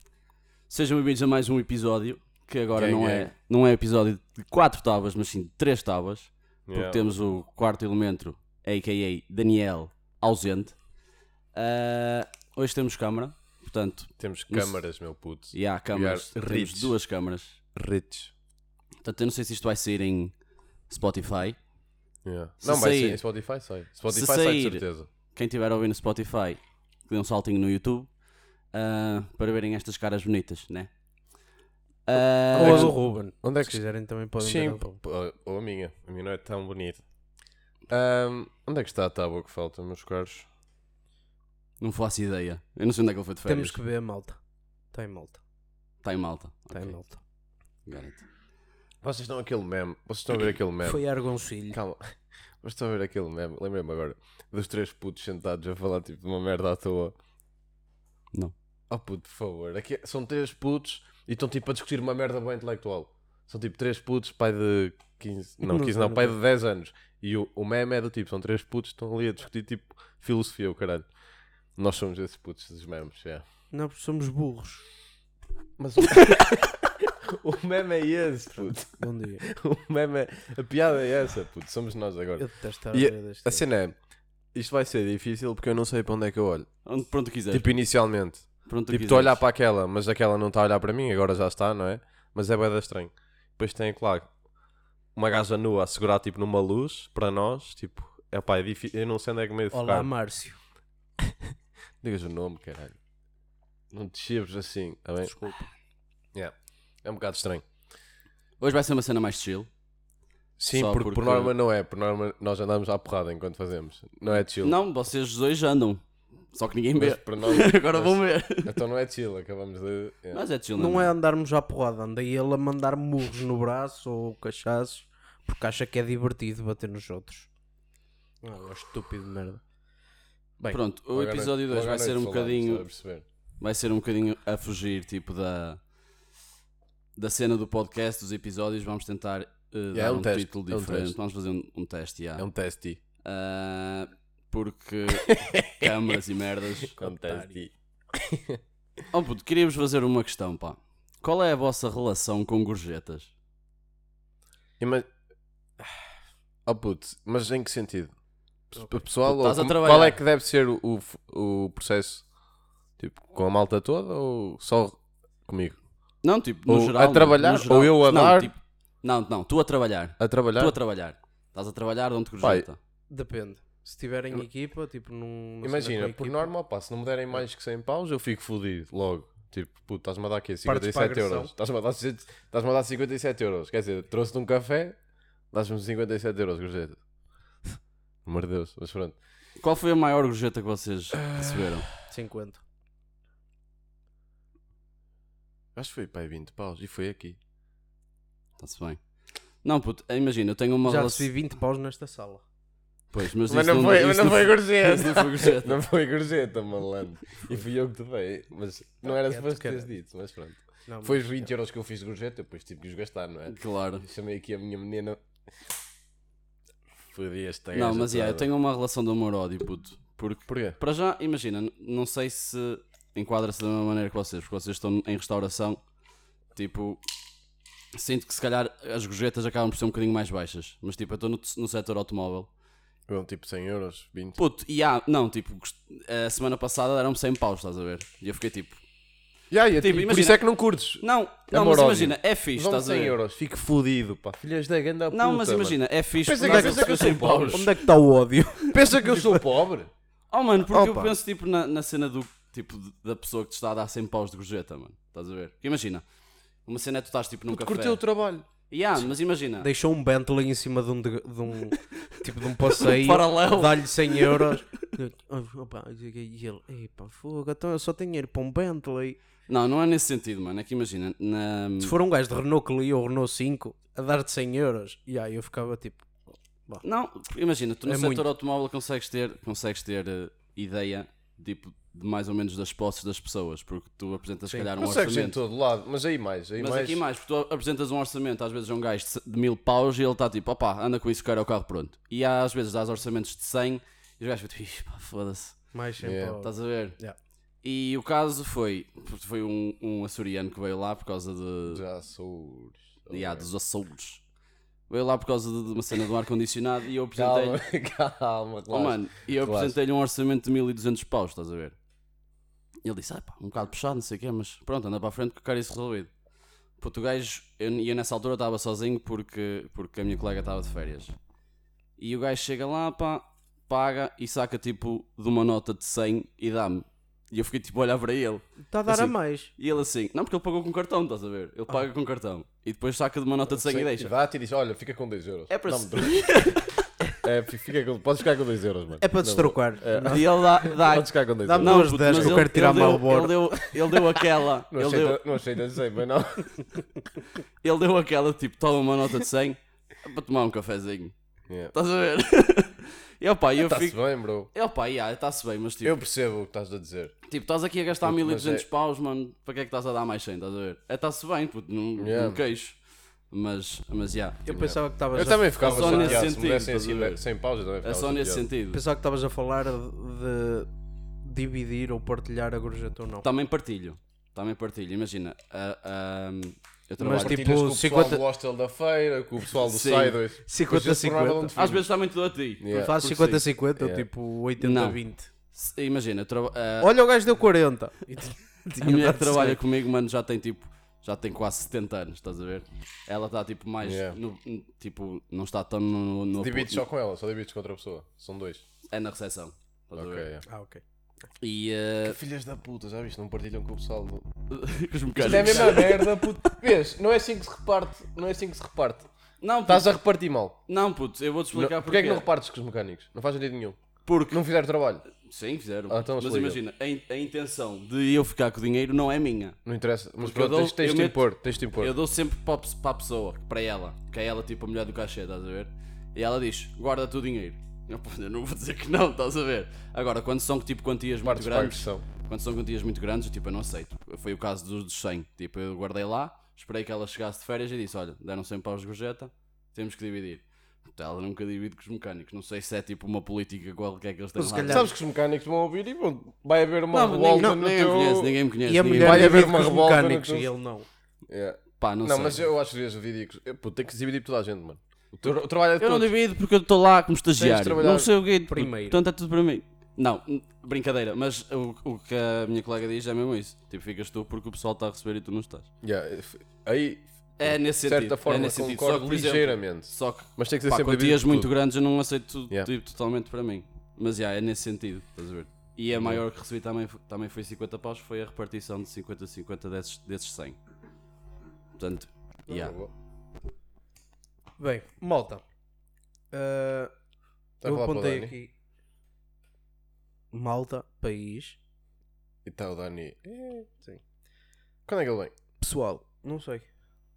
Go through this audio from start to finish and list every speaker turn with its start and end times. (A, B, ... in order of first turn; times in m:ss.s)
0:00.7-0:10.8 A
0:02.7-0:03.3 B
0:06.7-0:07.1 B
0:11.5-0:14.8 A
0:14.2-0:16.9 B
0:15.5-0:17.6 A
0:17.8-0:18.3 B
0:19.0-0:20.4 A
0:20.9-0:21.6 A
0:22.2-0:25.1 B
0:22.6-0:23.2 A
0:24.1-0:28.1 A
0:28.7-0:30.9 A
0:32.1-0:33.0 A
0:32.5-0:35.0 C
0:32.6-0:33.8 B
0:34.4-0:37.0 B
0:37.9-0:40.5 B
0:41.8-0:43.8 A
0:43.5-0:44.4 C
0:44.9-0:45.4 C
0:46.0-0:47.1 A
0:46.7-0:47.2 C
0:47.8-0:48.2 A
0:49.0-0:51.1 B
0:50.8-0:51.8 C
0:51.7-0:57.1 B
0:58.9-1:11.1 B
1:05.6-1:06.3 C
1:11.8-1:13.4 B
1:13.7-1:14.8 C
1:15.8-1:24.0 B
1:18.6-1:19.5 C
1:22.4-1:23.6 C
1:24.5-1:26.7 B
1:26.8-1:27.7 A
1:27.5-1:34.3 B
1:28.7-1:29.4 A
1:35.2-1:40.1 B
1:39.7-1:40.6 C
1:42.0-1:43.0 B
1:43.9-1:45.4 B
1:45.2-1:45.7 C
1:46.3-1:47.7 B
1:48.6-1:49.7 A
1:50.6-1:54.8 B
1:50.7-1:51.5 A
1:54.6-1:56.0 A
1:56.5-1:58.7 A
1:57.0-2:00.4 B
2:00.3-2:01.1 A
2:00.8-2:07.5 C
2:08.4-2:09.6 C
2:10.6-2:12.9 A
2:11.1-2:13.2 B
2:13.6-2:15.8 A
2:17.2-2:22.5 A
2:19.9-2:21.1 B
2:22.4-2:23.0 B
2:23.2-2:27.0 A
2:25.1-2:26.1 B
2:27.0-2:28.6 B
2:27.0-2:27.6 C
2:29.1-2:33.3 A
2:34.8-2:35.1 B
2:36.7-2:38.1 B
2:38.7-2:42.2 B
2:39.2-2:40.2 A
2:43.0-2:45.8 B
2:46.2-2:52.8 A
2:46.7-2:48.5 B
2:50.2-2:50.7 B
2:52.4-2:52.7 B
2:53.1-2:56.5 C
2:55.6-3:05.0 B
3:00.6-3:01.5 C
3:05.5-3:07.0 B
3:08.2-3:09.2 B
3:09.6-3:11.9 A
3:11.2-3:11.8 B
3:12.0-3:12.6 C
3:15.8-3:17.4 B
3:18.6-3:19.0 A
3:19.6-3:21.3 A
3:20.8-3:22.4 C
3:23.1-3:25.8 A
3:23.5-3:35.2 B
3:29.0-3:29.9 C
3:30.9-3:31.4 C
3:33.5-3:34.0 A
3:37.1-3:38.5 B
3:37.7-3:45.8 A
3:40.5-3:40.8 B
3:46.6-3:47.0 A
3:47.9-3:52.5 A
3:53.1-3:54.4 B
3:54.4-3:58.8 A
3:59.5-4:07.7 B
3:59.8-4:00.4 A
4:01.0-4:03.2 A
4:05.1-4:07.7 A
4:06.3-4:09.4 C
4:08.7-4:09.9 B
4:10.3-4:16.0 A
4:10.7-4:11.1 B
4:16.7-4:18.0 A
4:17.5-4:18.5 B
4:18.7-4:19.7 A
4:19.6-4:29.2 C
4:22.8-4:24.5 A
4:29.5-4:31.9 A
4:31.8-4:36.1 C
4:36.8-4:45.4 A
4:37.9-4:38.3 C
4:44.8-4:47.0 B
4:46.6-4:55.6 A
4:55.7-4:57.2 C
4:56.0-4:56.4 B
4:56.4-4:57.0 A
4:57.6-5:01.8 A
5:01.7-5:03.5 B
5:03.1-5:04.2 A
5:04.9-5:07.6 A
5:07.2-5:09.8 B
5:08.7-5:11.8 A
5:12.8-5:16.1 A
5:16.8-5:21.2 A
5:22.0-5:34.1 A
5:28.7-5:29.5 C
5:33.5-5:36.6 B
5:35.5-5:36.6 A
5:37.2-5:42.5 B
5:39.0-5:40.3 C
5:40.1-5:45.2 A
5:41.4-5:43.6 C
5:44.7-5:46.5 B
5:47.6-5:51.2 A
5:51.5-5:51.7 B
5:51.7-5:56.0 A
5:53.6-5:54.5 B
5:55.8-5:57.2 B
5:57.3-6:02.8 A
5:58.0-5:58.7 B
6:02.0-6:02.4 B
6:03.3-6:04.5 A
6:04.5-6:06.2 C
6:04.5-6:08.5 B
6:05.2-6:07.2 A
6:07.8-6:08.8 A
6:08.7-6:10.7 C
6:11.2-6:13.2 C
6:13.2-6:17.5 A
6:17.0-6:18.2 C
6:17.0-6:21.8 B
6:19.7-6:20.2 A
6:20.5-6:21.6 C
6:21.6-6:23.4 A
6:22.6-6:23.0 B
6:22.7-6:25.3 C
6:23.8-6:24.1 B
6:24.6-6:25.0 A
6:25.5-6:26.9 A
6:26.8-6:29.6 C
6:28.8-6:36.8 A
6:33.8-6:34.2 B
6:36.4-6:38.6 B
6:38.9-6:40.3 A
6:40.0-6:40.4 B
6:40.5-6:40.8 C
6:41.4-6:42.2 A
6:42.0-6:44.3 B
6:44.5-6:46.2 A
6:45.2-6:49.1 B
6:49.4-6:50.0 A
6:49.7-6:50.6 B
6:50.7-6:52.3 A
6:51.5-6:53.8 B
6:54.1-6:54.4 A
6:54.3-6:55.0 B
6:55.2-6:59.6 A
6:55.9-6:56.6 B
6:59.6-7:01.9 B
7:00.2-7:01.2 A
7:01.8-7:24.8 A
7:11.2-7:12.0 B
7:24.4-7:24.9 C
7:24.6-7:28.4 B
7:26.9-7:29.5 A
7:28.7-7:30.9 C
7:29.0-7:30.5 B
7:31.3-7:36.1 B
7:31.8-7:32.5 A
7:35.8-7:45.7 A
7:37.4-7:38.1 B
7:38.5-7:39.0 C
7:45.8-7:51.5 B
7:47.4-8:00.6 A
7:55.9-7:56.2 B
8:01.8-8:02.8 A
8:02.5-8:02.9 B
8:04.6-8:05.4 C
8:06.3-8:06.9 C
8:07.6-8:08.3 B
8:07.6-8:08.5 C
8:10.3-8:11.6 C
8:12.4-8:13.7 B
8:14.9-8:15.4 B
8:15.6-8:16.7 C